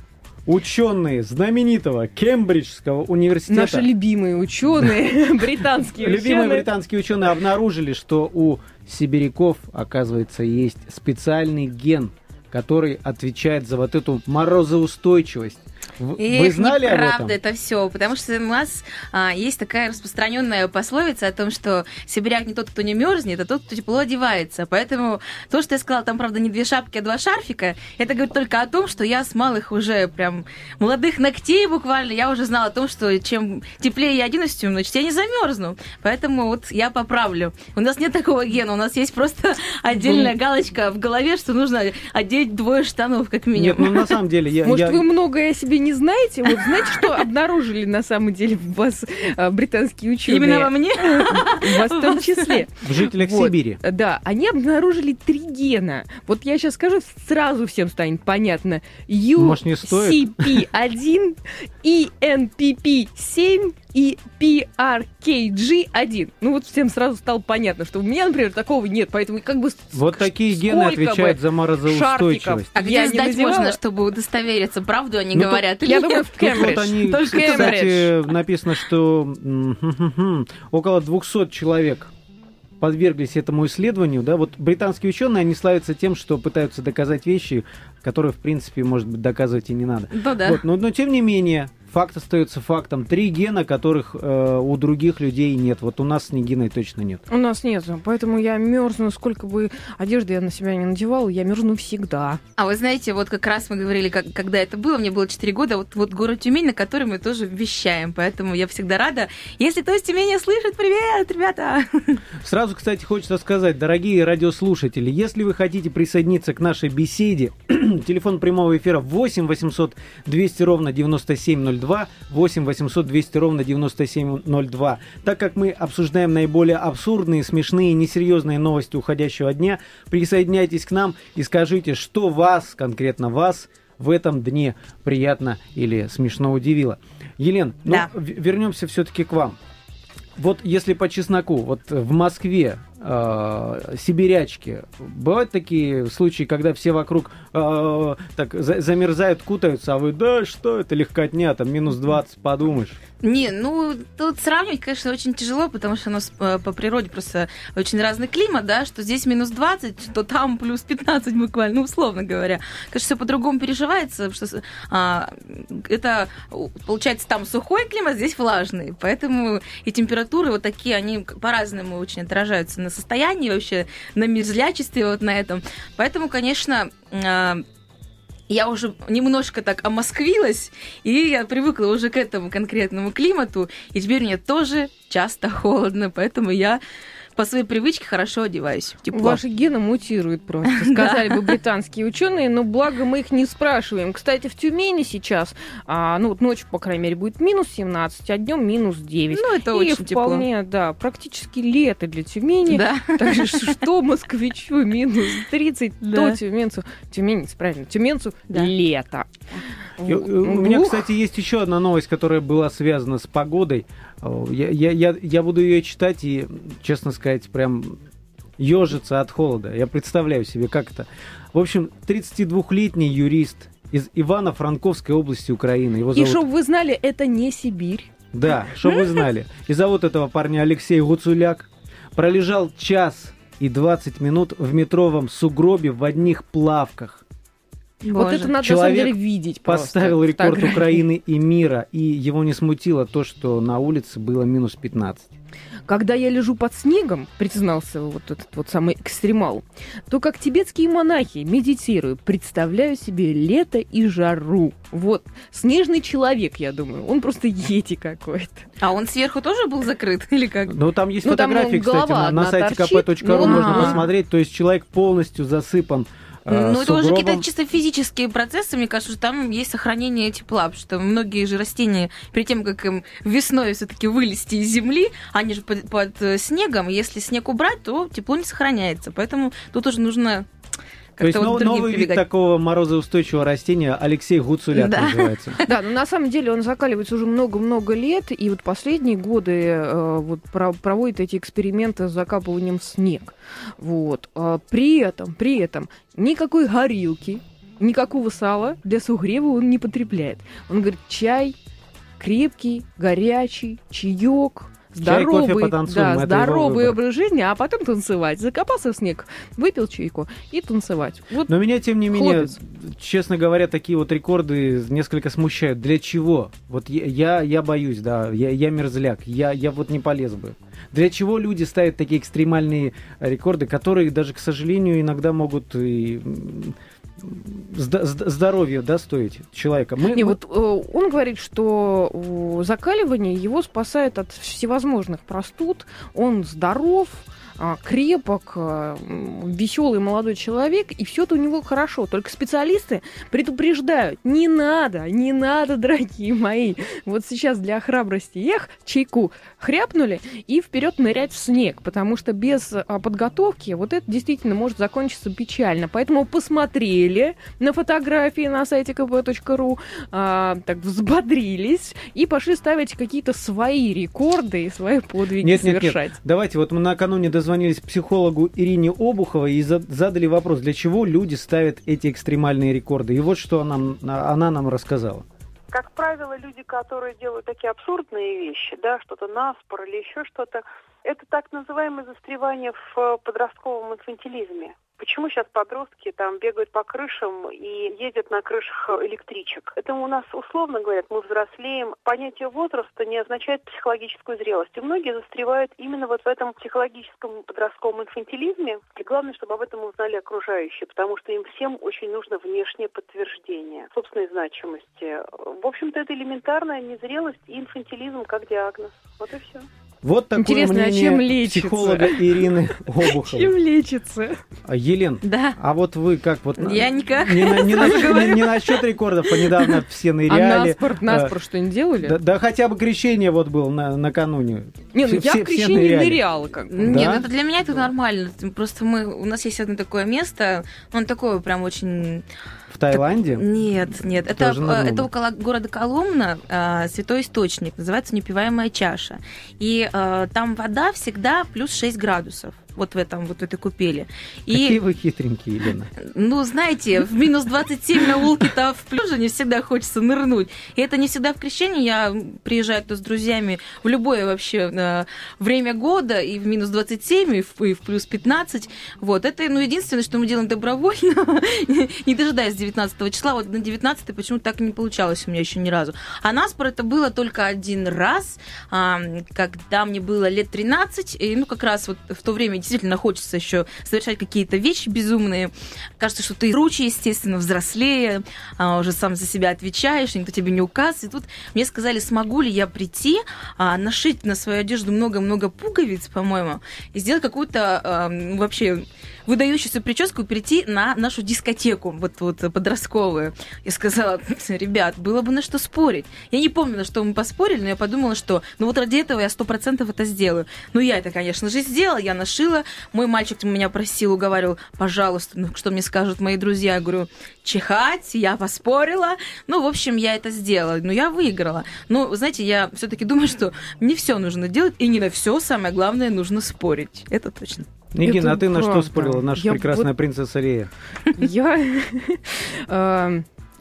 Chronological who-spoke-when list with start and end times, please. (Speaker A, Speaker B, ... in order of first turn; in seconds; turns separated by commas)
Speaker A: 0.5-3.9, Speaker B: 3.5-6.7, Speaker A: 6.0-17.4, Speaker C: 16.2-44.2, Speaker A: 43.5-45.0, Speaker B: 44.6-73.8, Speaker C: 46.6-47.1, Speaker C: 50.3-52.6, Speaker A: 52.8-53.8, Speaker A: 59.4-60.6, Speaker A: 69.9-72.7, Speaker C: 72.8-78.0, Speaker A: 75.3-75.6, Speaker B: 75.8-78.1, Speaker A: 76.4-82.1, Speaker A: 82.8-97.2, Speaker C: 90.1-90.6, Speaker B: 97.3-102.4, Speaker C: 102.6-112.2, Speaker A: 112.4-139.6, Speaker A: 140.4-153.0, Speaker C: 153.2-177.6, Speaker C: 178.5-186.8, Speaker C: 187.4-189.4, Speaker B: 189.1-209.3, Speaker C: 190.7-191.6, Speaker C: 199.3-200.5, Speaker C: 202.7-203.8, Speaker C: 206.0-206.4, Speaker B: 210.0-211.1, Speaker A: 210.1-218.0, Speaker A: 218.6-226.4, Speaker B: 226.1-228.1, Speaker A: 228.3-237.2, Speaker C: 238.0-238.5, Speaker B: 238.1-241.1, Speaker A: 238.6-245.3, Speaker B: 245.9-258.7, Speaker C: 258.8-260.7, Speaker A: 260.7-267.4, Speaker B: 261.2-264.0, Speaker C: 263.4-264.1, Speaker C: 266.5-280.5, Speaker C: 281.2-282.2, Speaker A: 281.2-285.6, Speaker C: 284.7-285.7, Speaker B: 285.7-301.6, Speaker B: 302.2-311.6, Speaker A: 304.9-307.0, Speaker A: 311.5-330.4, Speaker B: 312.1-312.6, Speaker B: 330.1-366.1, Speaker A: 365.4-375.3, Speaker D: 375.7-409.7, Speaker A: 410.0-413.5, Speaker B: 410.4-412.5, Speaker B: 413.0-414.4, Speaker A: 414.6-421.4, Speaker C: 415.2-415.6, Speaker C: 416.6-418.9, Speaker B: 420.3-422.2, Speaker A: 422.0-426.2, Speaker B: 424.9-427.2, Speaker C: 426.7-432.2, Speaker A: 426.8-427.3, Speaker A: 432.7-435.1, Speaker C: 432.9-444.8, Speaker A: 444.5-445.9, Speaker C: 446.0-517.7, Speaker A: 517.9-520.7, Speaker B: 518.0-519.9, Speaker B: 521.2-523.3